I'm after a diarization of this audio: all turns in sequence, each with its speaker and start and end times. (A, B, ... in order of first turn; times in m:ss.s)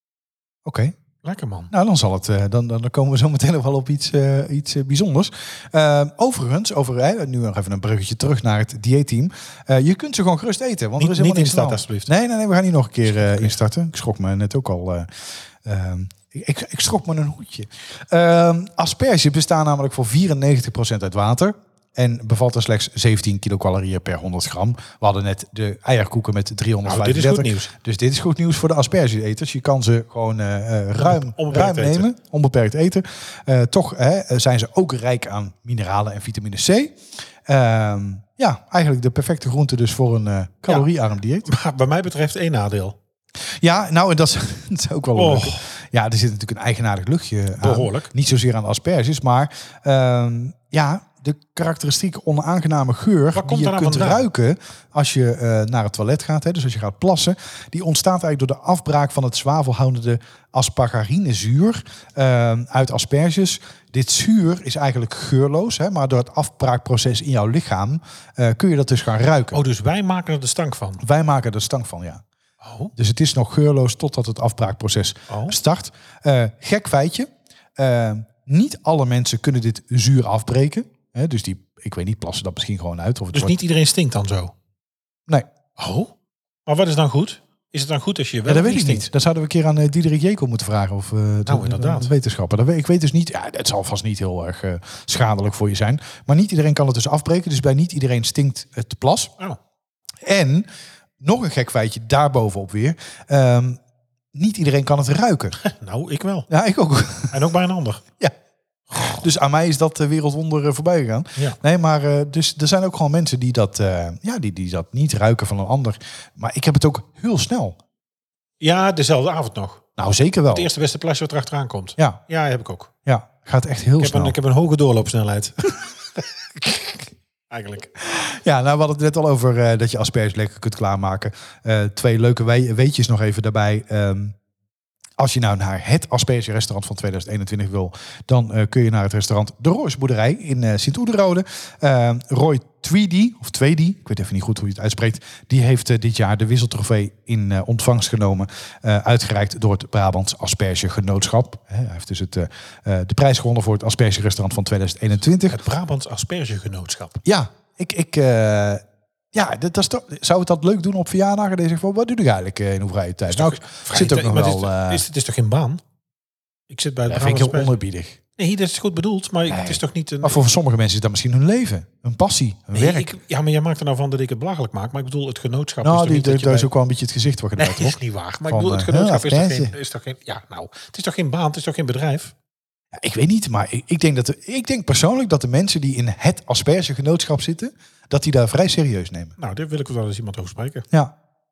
0:00.6-0:00.9 A
0:01.2-0:01.7 B
0:01.7-0:15.1 A
0:11.0-0:12.1 B
0:13.1-0:13.5 B
0:15.6-0:41.5 A
0:26.8-0:27.7 B
0:31.0-0:32.1 B
0:41.4-0:43.0 B
0:43.5-1:09.6 A
0:45.1-0:45.6 B
0:47.6-0:48.1 B
0:53.3-0:54.2 B
1:09.5-1:11.0 B
1:11.0-1:12.2 A
1:12.6-1:12.9 B
1:13.0-1:23.6 A
1:15.3-1:15.6 B
1:23.3-1:24.5 B
1:25.8-1:26.1 B
1:26.6-1:29.1 B
1:28.5-1:39.3 A
1:31.4-1:32.1 B
1:40.2-1:40.7 A
1:41.2-1:43.8 A
1:44.3-1:45.6 A
1:45.6-1:46.5 B
1:46.5-1:47.4 A
1:47.3-1:48.0 B
1:48.9-1:49.2 B
1:49.0-1:57.8 A
1:58.6-1:59.9 B
2:00.0-2:00.7 A
2:00.5-2:02.9 B
2:03.0-2:04.3 A
2:04.0-2:07.9 B
2:08.0-2:14.3 A
2:15.2-2:35.6 A
2:35.4-2:37.2 B
2:37.2-2:45.0 A
2:43.3-2:45.8 B
2:46.7-2:47.8 B
2:47.1-2:48.2 A
2:48.4-2:50.4 B
2:49.5-2:53.1 A
2:52.7-2:56.7 B
2:55.8-2:59.7 A
2:57.6-3:02.3 B
3:02.9-3:09.3 A
3:09.4-3:10.8 B